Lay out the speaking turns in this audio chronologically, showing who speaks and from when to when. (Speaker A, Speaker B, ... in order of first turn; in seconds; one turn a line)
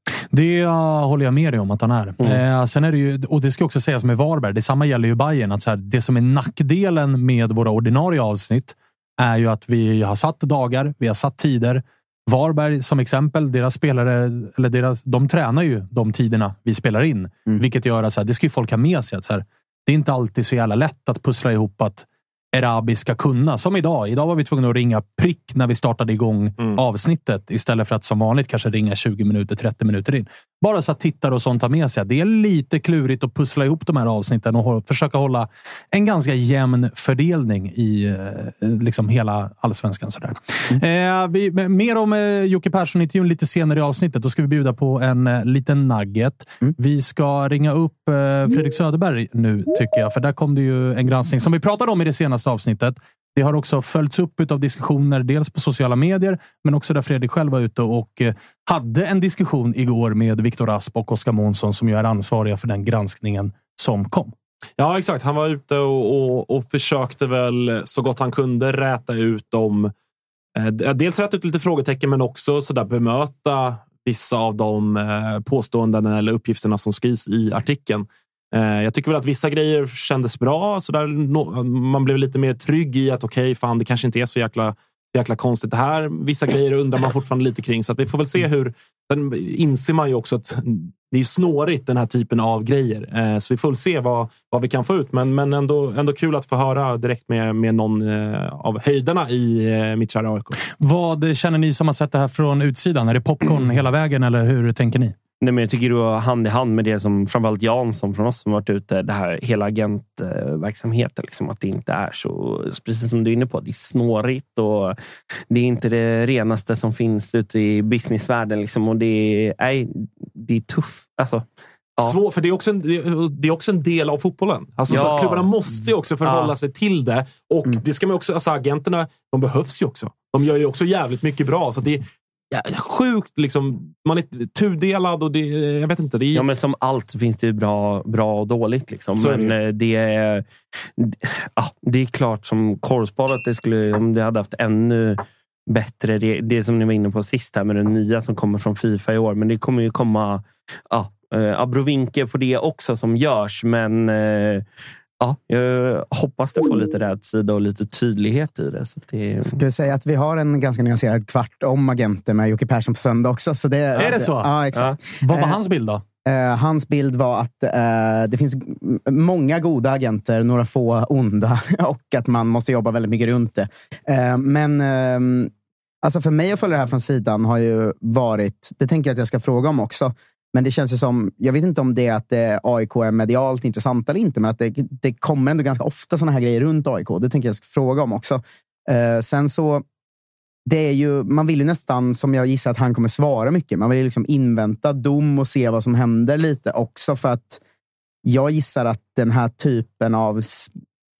Speaker A: 0.3-64.3
Speaker B: 64.8-69.9
Speaker B: 70.5-100.5
Speaker A: 100.7-105.1
Speaker C: 105.4-115.0
Speaker C: 115.5-121.4
Speaker B: 122.0-136.4
Speaker C: 124.9-125.5
Speaker C: 126.2-126.5
Speaker C: 136.3-140.4
Speaker B: 139.2-139.5
Speaker C: 141.0-154.6
Speaker C: 155.2-159.6
Speaker D: 159.5-165.6
Speaker A: 164.0-164.5
Speaker A: 165.2-166.0
Speaker D: 166.2-175.5
Speaker D: 176.0-189.8
Speaker D: 190.7-197.6
Speaker D: 198.2-200.7